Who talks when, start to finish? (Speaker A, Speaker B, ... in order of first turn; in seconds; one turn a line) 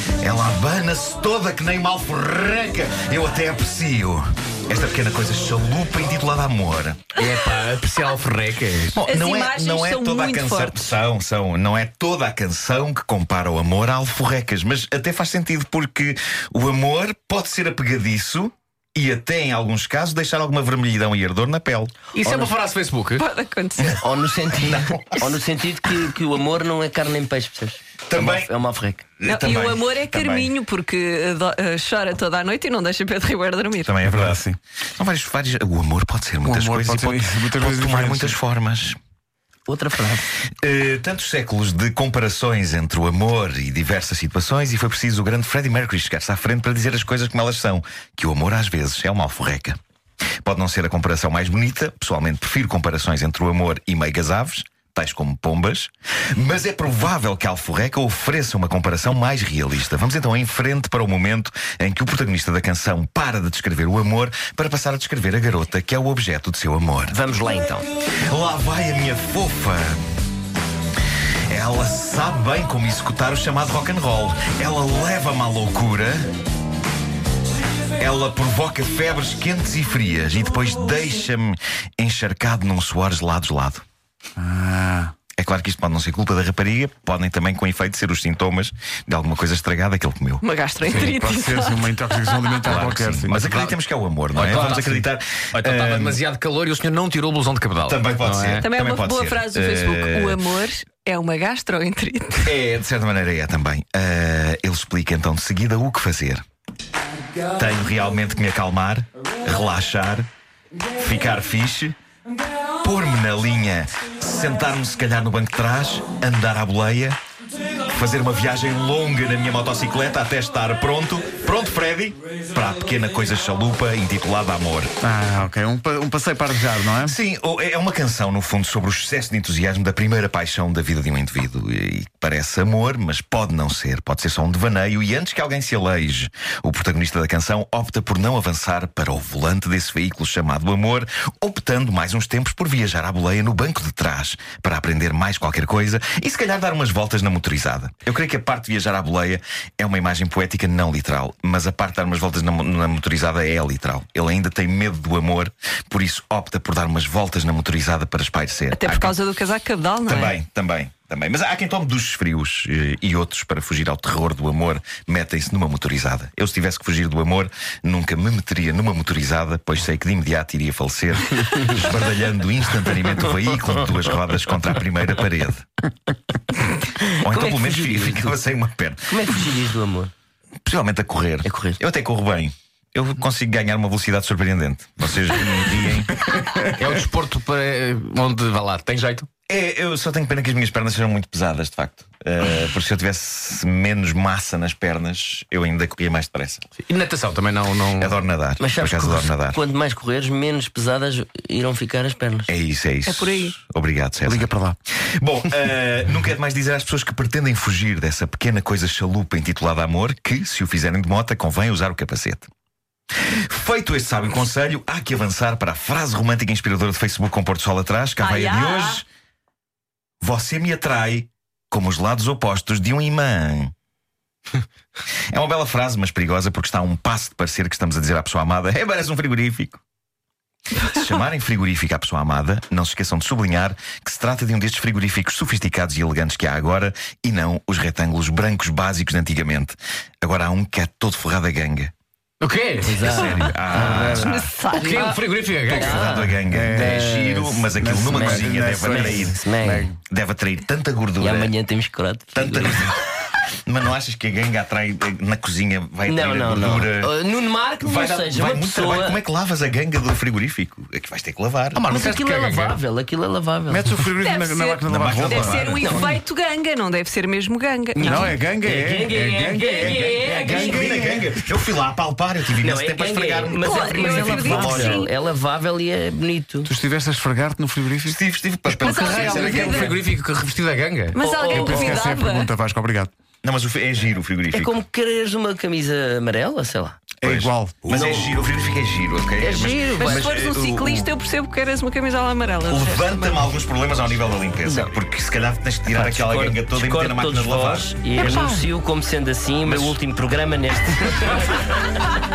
Speaker A: 0.2-7.0
Speaker B: 7.2-9.0
Speaker A: 8.9-21.9
Speaker C: 9.0-10.9
Speaker B: 22.1-23.2
Speaker D: 22.2-22.5
Speaker C: 23.2-24.0
Speaker A: 23.8-25.4
Speaker D: 24.0-29.0
Speaker A: 28.1-28.5
Speaker A: 29.2-30.5
Speaker C: 29.2-33.9
Speaker A: 33.8-34.5
Speaker E: 34.0-34.6
Speaker A: 35.0-39.0
Speaker E: 36.4-38.4
Speaker D: 39.7-40.3
Speaker A: 40.6-49.8
Speaker A: 50.4-67.1
Speaker D: 67.1-67.9
Speaker A: 68.2-70.0
Speaker A: 71.5-76.3
Speaker A: 78.0-83.8
Speaker E: 84.4-85.1
Speaker A: 85.4-90.4
Speaker C: 90.4-92.8
Speaker E: 90.8-93.5
Speaker A: 92.7-96.2
Speaker B: 93.3-93.8
Speaker B: 94.3-98.7
Speaker A: 97.8-100.4
Speaker C: 98.6-102.5
Speaker A: 102.4-106.4
Speaker A: 107.5-110.3
Speaker A: 110.9-112.0
Speaker A: 112.8-117.2
Speaker A: 117.8-124.9
Speaker E: 125.0-127.2
Speaker A: 127.0-159.1
Speaker C: 158.7-160.4
Speaker A: 160.0-175.7
Speaker D: 177.0-178.4
Speaker A: 177.2-179.2
Speaker D: 179.1-180.1
Speaker A: 180.7-186.2
Speaker D: 181.4-181.8
Speaker E: 186.3-186.6
Speaker B: 186.8-189.3
Speaker A: 189.5-196.6
Speaker B: 196.8-198.2
Speaker A: 198.0-199.6
Speaker D: 198.6-202.5
Speaker A: 202.5-204.5
Speaker C: 203.1-203.5
Speaker E: 204.2-204.8
Speaker A: 205.2-212.5
Speaker A: 213.2-219.1
Speaker C: 218.2-219.0
Speaker A: 220.2-223.7
Speaker A: 225.3-229.8
Speaker A: 230.8-241.9
Speaker B: 242.4-243.6
Speaker D: 242.8-244.2
Speaker A: 243.0-244.5
Speaker E: 243.7-244.4
Speaker C: 244.1-245.2
Speaker B: 244.7-246.2
Speaker A: 245.7-249.3
Speaker D: 245.7-249.9
Speaker E: 246.5-247.1
Speaker E: 247.8-250.0
Speaker A: 250.1-251.5
Speaker D: 251.2-252.9
Speaker A: 252.3-252.9
Speaker A: 253.7-257.1
Speaker D: 256.1-259.2
Speaker A: 257.8-261.8
Speaker B: 261.7-262.8
Speaker D: 261.9-263.9
Speaker E: 263.7-265.6
Speaker C: 264.2-268.4
Speaker A: 264.9-266.1
Speaker D: 265.8-266.1
Speaker D: 267.9-270.9
Speaker E: 268.0-271.4
Speaker A: 269.7-275.1
Speaker D: 272.6-276.7
Speaker C: 273.6-275.1
Speaker E: 276.6-278.2
Speaker A: 278.1-280.0
Speaker C: 278.8-280.0
Speaker B: 278.8-281.2
Speaker C: 281.1-282.5
Speaker D: 281.2-282.0
Speaker E: 281.4-283.1
Speaker A: 283.4-284.8
Speaker D: 284.5-287.1
Speaker E: 287.2-288.3
Speaker A: 287.2-291.1
Speaker D: 289.4-290.3
Speaker C: 290.0-293.4
Speaker A: 292.7-297.9
Speaker D: 294.6-294.9
Speaker D: 295.9-301.8
Speaker B: 298.2-298.6
Speaker B: 299.7-299.9